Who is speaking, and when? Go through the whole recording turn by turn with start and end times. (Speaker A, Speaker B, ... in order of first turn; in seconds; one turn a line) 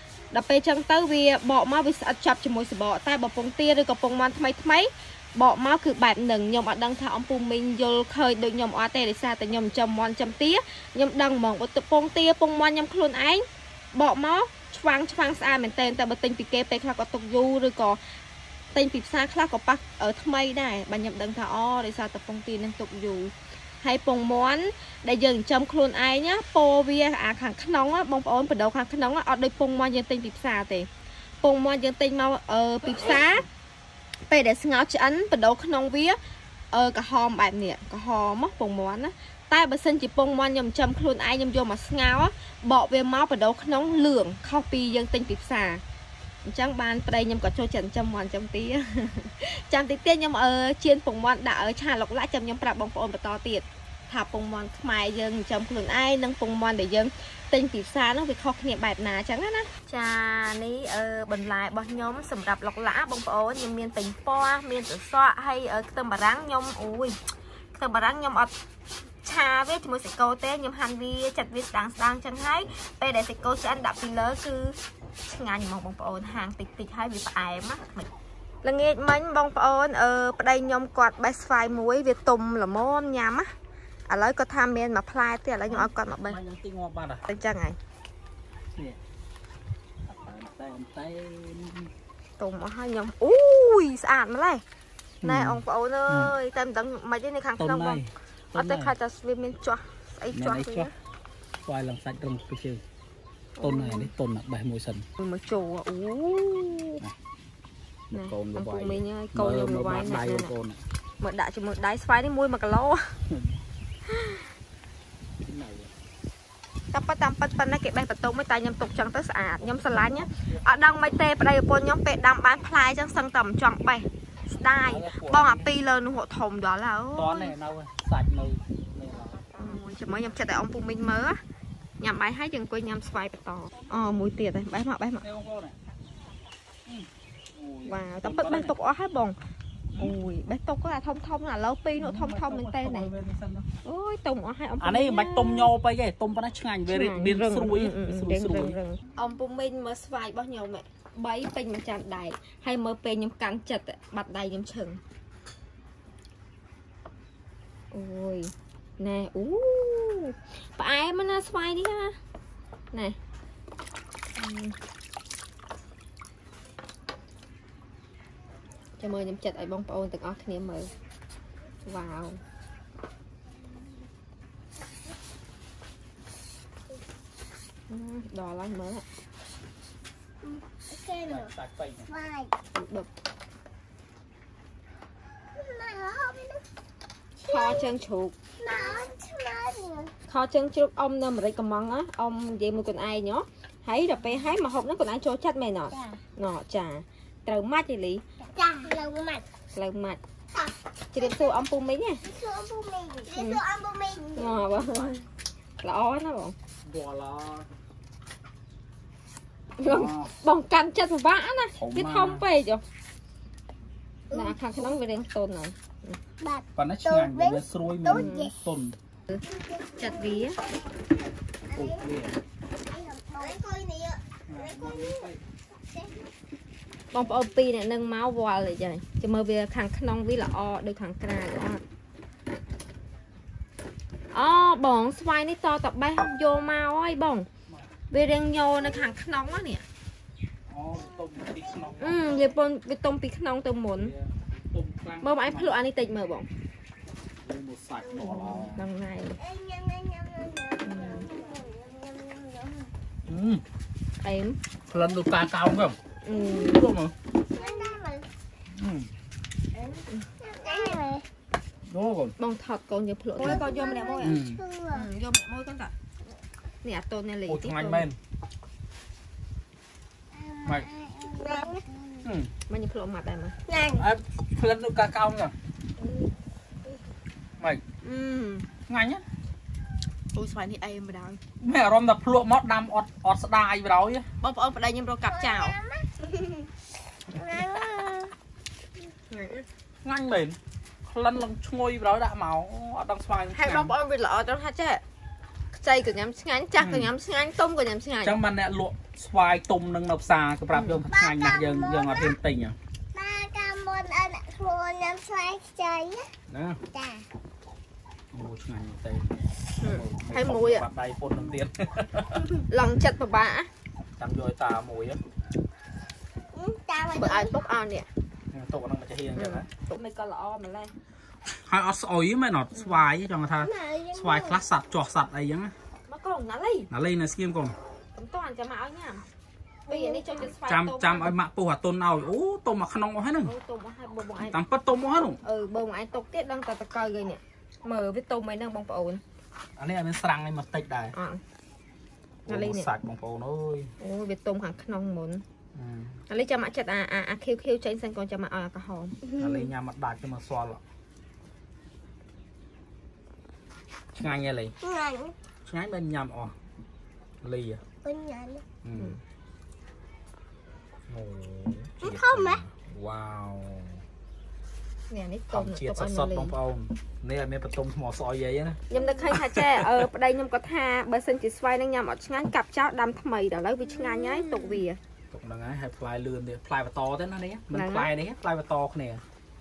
Speaker A: 0.3-18.0
Speaker A: 18.7-30.9
Speaker A: 31.4-33.5
Speaker A: 34.3-36.2
Speaker A: 36.7-45.8
Speaker A: 46.5-67.2
Speaker A: 67.8-68.5
Speaker A: 69.2-78.1
Speaker A: 78.6-83.5
Speaker A: 84.1-86.4
Speaker B: 85.7-87.2
Speaker A: 87.3-87.8
Speaker B: 90.1-91.9
Speaker A: 92.4-94.6
Speaker B: 95.2-96.3
Speaker A: 95.2-98.0
Speaker B: 97.6-99.0
Speaker A: 98.5-100.9
Speaker B: 100.3-100.9
Speaker B: 101.7-102.8
Speaker A: 103.6-104.1
Speaker B: 103.6-105.1
Speaker A: 105.2-107.0
Speaker B: 108.1-110.8
Speaker A: 108.1-110.5
Speaker A: 111.2-113.2
Speaker B: 113.3-113.5
Speaker A: 114.1-114.5
Speaker B: 115.5-115.9
Speaker A: 116.9-127.5
Speaker B: 119.6-121.2
Speaker B: 124.7-125.8
Speaker B: 127.2-129.5
Speaker A: 129.5-131.4
Speaker A: 132.0-135.3
Speaker B: 135.2-135.8
Speaker B: 136.9-138.7
Speaker A: 137.8-139.4
Speaker A: 140.0-143.1
Speaker B: 142.0-143.7
Speaker A: 143.8-145.7
Speaker B: 144.8-148.8
Speaker A: 146.9-155.0
Speaker A: 157.9-162.2
Speaker A: 164.4-164.8
Speaker A: 169.0-170.9
Speaker A: 171.9-172.4
Speaker A: 177.9-179.1
Speaker C: 180.4-181.5
Speaker B: 181.2-182.1
Speaker C: 182.1-182.5
Speaker A: 182.8-183.1
Speaker C: 185.5-186.6
Speaker C: 187.4-187.9
Speaker A: 187.5-188.3
Speaker C: 188.6-190.1
Speaker A: 190.3-198.2
Speaker C: 195.9-196.2
Speaker C: 198.4-199.4
Speaker A: 199.8-200.2
Speaker C: 200.5-201.7
Speaker A: 201.1-202.2
Speaker C: 202.2-205.1
Speaker A: 203.3-203.6
Speaker A: 204.4-205.2
Speaker A: 205.8-206.6
Speaker B: 206.8-207.7
Speaker A: 209.8-212.8
Speaker B: 209.9-210.3
Speaker B: 211.8-212.4
Speaker C: 214.3-214.9
Speaker A: 214.3-216.2
Speaker C: 216.4-218.5
Speaker B: 216.8-219.0
Speaker A: 218.1-218.5
Speaker C: 219.5-220.7
Speaker A: 220.0-220.6
Speaker C: 221.7-222.1
Speaker B: 221.7-222.4
Speaker C: 222.9-226.3
Speaker B: 224.5-225.4
Speaker A: 227.1-231.8
Speaker A: 234.3-237.5
Speaker A: 238.1-239.9
Speaker B: 240.7-242.5
Speaker C: 241.0-242.4
Speaker A: 242.0-244.1
Speaker B: 244.0-245.8
Speaker A: 245.2-246.5
Speaker B: 247.4-248.9
Speaker C: 248.0-248.7
Speaker A: 248.2-249.4
Speaker C: 249.4-252.9
Speaker A: 250.8-251.3
Speaker B: 253.3-253.6
Speaker A: 254.2-254.6
Speaker B: 254.9-256.0
Speaker A: 256.2-256.9
Speaker C: 256.3-256.8
Speaker B: 256.5-257.2
Speaker C: 257.5-258.3
Speaker B: 258.7-259.1
Speaker C: 260.4-261.3
Speaker B: 261.9-262.3
Speaker A: 262.4-264.4
Speaker B: 263.4-264.6
Speaker C: 263.4-265.1
Speaker A: 264.9-265.9
Speaker A: 266.8-268.1
Speaker B: 267.5-268.2
Speaker C: 270.3-272.2
Speaker B: 272.2-272.5
Speaker A: 272.7-273.6
Speaker C: 273.7-274.1
Speaker B: 273.9-275.6
Speaker A: 278.0-278.7
Speaker B: 278.9-279.2
Speaker A: 280.3-281.4
Speaker B: 281.6-284.3
Speaker A: 284.4-285.8
Speaker C: 285.3-286.1
Speaker C: 287.3-288.3
Speaker A: 289.3-289.7
Speaker B: 290.0-293.9
Speaker A: 293.5-295.0
Speaker A: 295.7-298.4
Speaker B: 296.8-297.1
Speaker B: 298.2-302.8
Speaker A: 300.7-301.0
Speaker C: 301.1-302.4
Speaker C: 303.1-306.3
Speaker B: 306.5-306.8
Speaker C: 306.9-307.3
Speaker B: 308.3-312.5
Speaker A: 309.8-310.9
Speaker A: 312.7-313.7
Speaker B: 314.2-315.2
Speaker C: 316.5-317.6
Speaker A: 317.1-318.1
Speaker B: 318.5-319.7
Speaker A: 319.4-320.9
Speaker B: 321.5-325.7
Speaker A: 322.7-323.0
Speaker C: 323.6-324.6
Speaker A: 326.1-326.9
Speaker B: 326.9-327.8
Speaker A: 328.2-329.3
Speaker C: 329.9-330.4
Speaker A: 329.9-331.3
Speaker B: 330.7-333.5
Speaker A: 333.4-334.6
Speaker B: 334.5-335.4
Speaker A: 335.4-339.2
Speaker B: 339.8-341.1
Speaker A: 341.1-341.4
Speaker B: 342.5-343.9
Speaker A: 342.5-342.9
Speaker A: 344.0-345.4
Speaker B: 345.8-346.2
Speaker A: 346.3-349.2
Speaker C: 349.3-349.7
Speaker B: 349.4-350.8
Speaker B: 354.2-354.7
Speaker C: 354.8-355.4
Speaker B: 355.6-356.5
Speaker B: 357.4-357.8
Speaker C: 358.0-358.6
Speaker B: 358.8-359.2
Speaker B: 361.1-364.0
Speaker C: 362.0-362.6
Speaker A: 365.1-366.5
Speaker B: 365.5-370.1
Speaker A: 368.9-375.0
Speaker C: 368.9-369.3
Speaker C: 373.9-374.8
Speaker B: 375.3-379.2
Speaker A: 377.7-378.1